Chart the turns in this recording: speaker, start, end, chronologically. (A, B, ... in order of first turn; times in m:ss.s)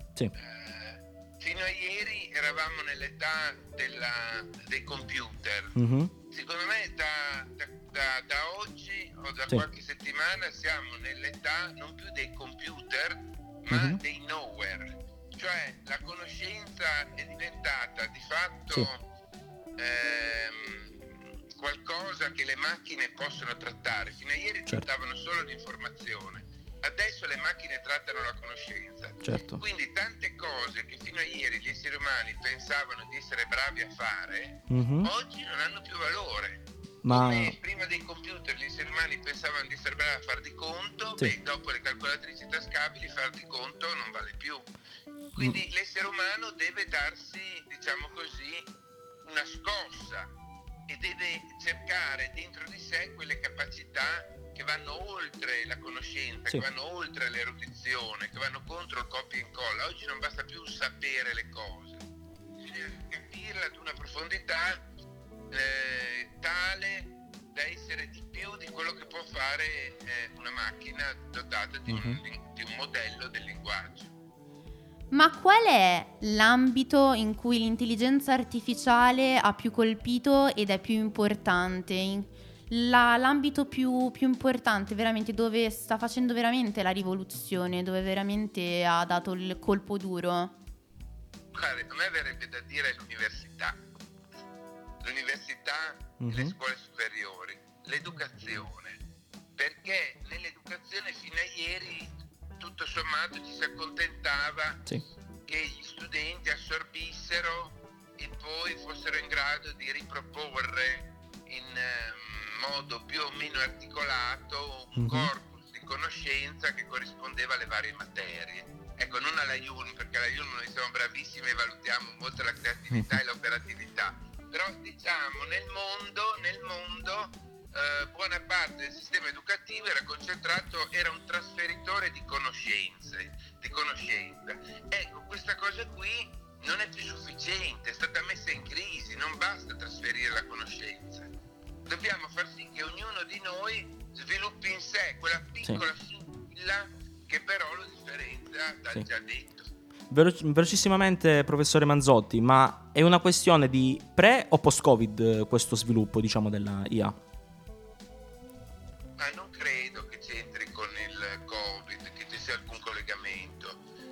0:00.4-0:05.7 A
0:05.7-0:06.1 B
0:06.3-0:19.0 A
0:13.7-0:14.0 B
0:19.8-0:20.9 A
0:21.5-0:44.6 A
0:29.2-0:29.6 B
0:34.7-0:35.1 B
0:37.0-0:37.6 B
0:45.3-0:48.7 A
0:49.2-0:50.3 A
0:50.9-1:02.0 A
1:02.6-1:04.8 A
1:05.5-1:14.1 A
1:11.9-1:12.2 B
1:15.1-1:30.5 C
1:31.5-1:33.8 A
1:35.0-1:39.0 A
1:36.2-1:36.5 B
1:39.6-1:44.8 A
1:45.4-2:21.3 A
1:55.0-1:55.3 B
2:21.8-2:29.7 A
2:30.1-2:37.2 B
2:39.2-2:43.8 A